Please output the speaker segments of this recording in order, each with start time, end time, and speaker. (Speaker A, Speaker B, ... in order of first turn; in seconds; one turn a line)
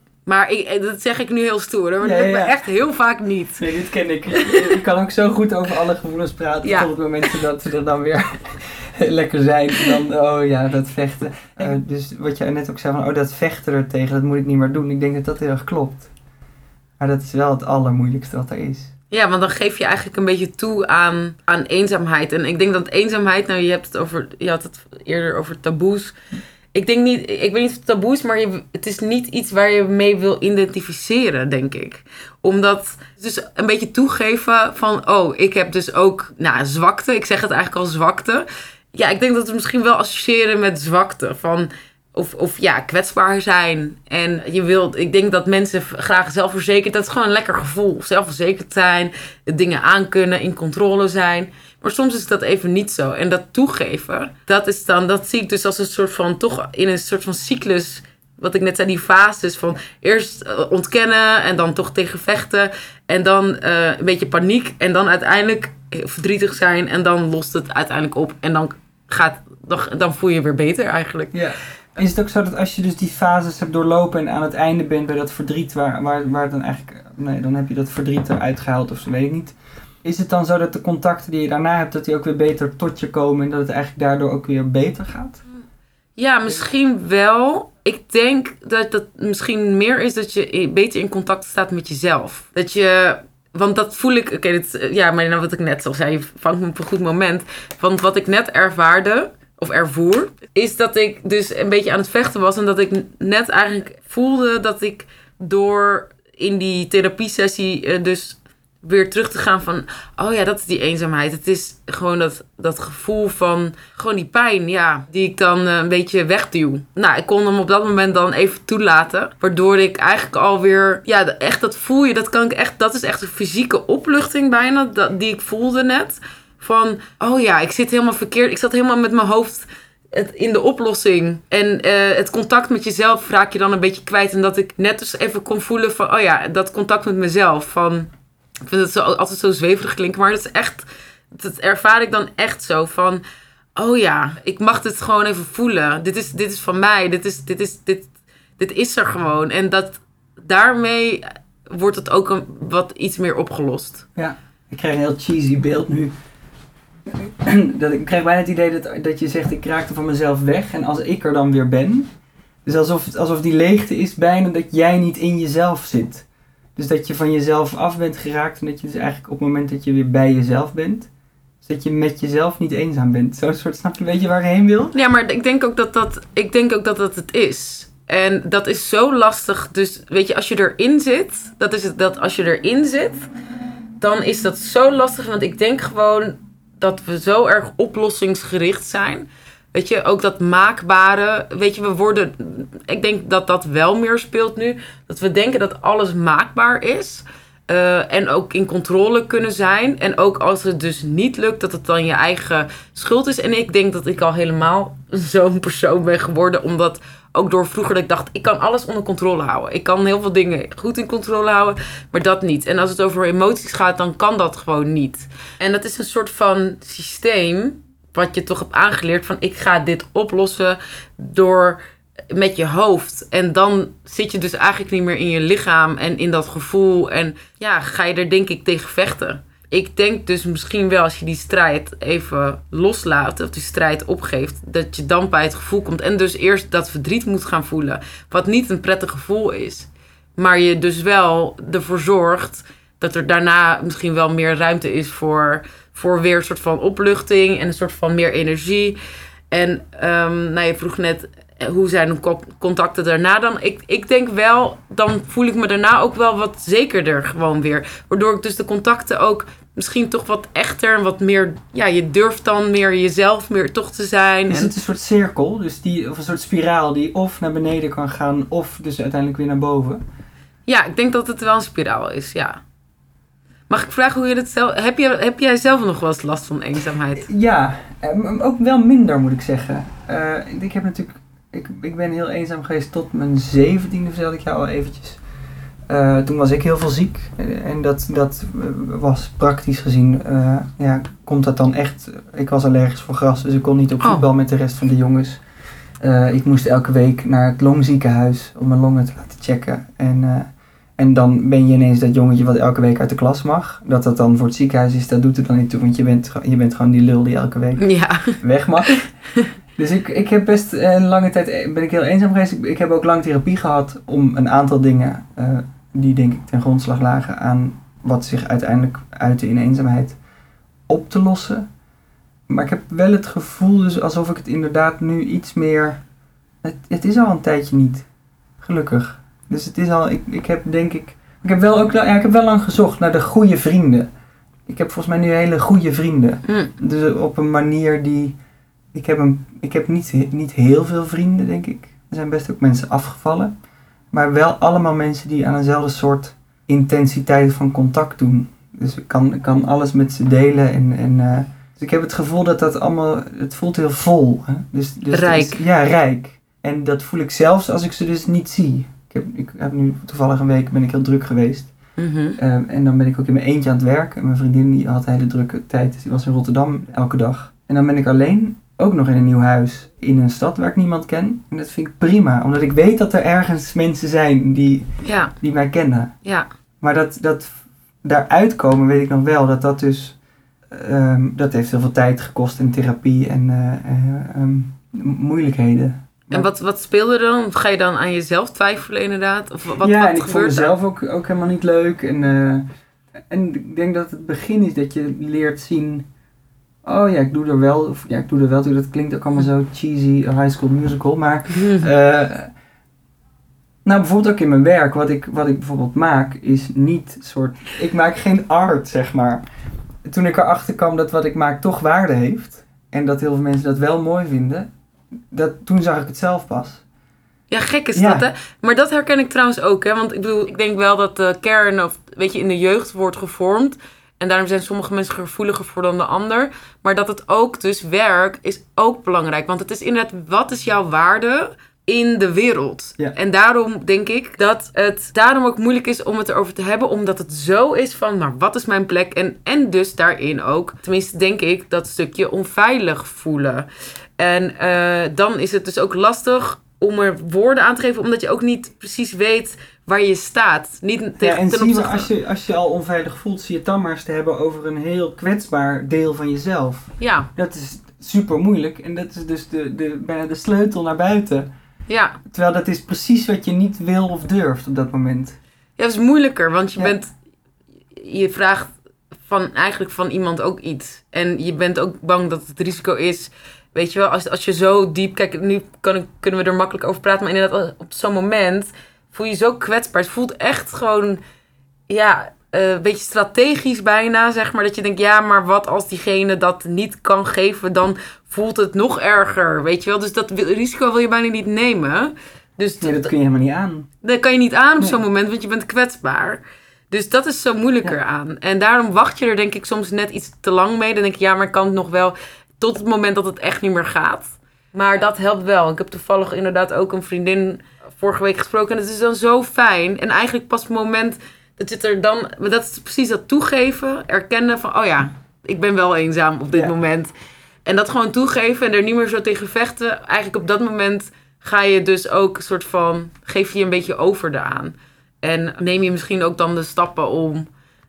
Speaker A: 0.2-3.6
Speaker B: 2.0-2.6
Speaker B: 3.6-16.1
Speaker A: 4.3-4.8
Speaker A: 6.6-6.9
Speaker B: 17.0-18.9
Speaker A: 19.1-26.1
Speaker A: 26.7-71.4
Speaker B: 71.3-85.4
Speaker A: 86.2-138.1
Speaker A: 138.6-143.2
Speaker A: 143.8-154.1
Speaker B: 154.2-156.1
Speaker B: 157.1-162.1
Speaker B: 162.6-166.2
Speaker B: 166.8-171.1
Speaker B: 171.6-174.9
Speaker A: 174.9-183.3
Speaker A: 184.0-221.8
Speaker A: 222.3-249.0
Speaker A: 249.5-264.7
Speaker B: 264.5-270.0
Speaker A: 270.7-272.6
Speaker A: 273.7-277.3
Speaker B: 277.2-285.2
Speaker B: 285.9-295.4
Speaker A: 294.0-294.2
Speaker B: 296.0-309.1
Speaker A: 307.8-309.5
Speaker B: 309.8-320.2
Speaker B: 320.9-321.6
Speaker B: 322.5-326.0
Speaker B: 326.6-328.1
Speaker B: 328.6-334.1
Speaker B: 334.7-338.4
Speaker B: 338.9-343.5
Speaker B: 344.1-361.7
Speaker A: 355.1-355.6
Speaker A: 362.0-362.4
Speaker B: 362.4-374.9
Speaker A: 375.0-375.3
Speaker B: 375.4-376.1
Speaker B: 376.8-380.1
Speaker B: 380.7-386.4
Speaker A: 386.3-390.7
Speaker B: 389.8-392.6
Speaker B: 393.3-396.1
Speaker B: 396.8-402.5
Speaker A: 401.5-401.9
Speaker B: 403.8-409.4
Speaker B: 410.1-414.7
Speaker B: 415.3-416.8
Speaker A: 417.5-452.1
Speaker B: 417.9-418.3
Speaker B: 451.2-461.5
Speaker A: 457.0-457.3
Speaker A: 461.9-462.2
Speaker B: 462.2-465.4
Speaker A: 465.8-467.1
Speaker A: 467.9-468.7
Speaker A: 469.2-481.2
Speaker A: 481.9-493.1
Speaker B: 492.8-493.9
Speaker A: 494.0-517.1
Speaker A: 517.6-527.5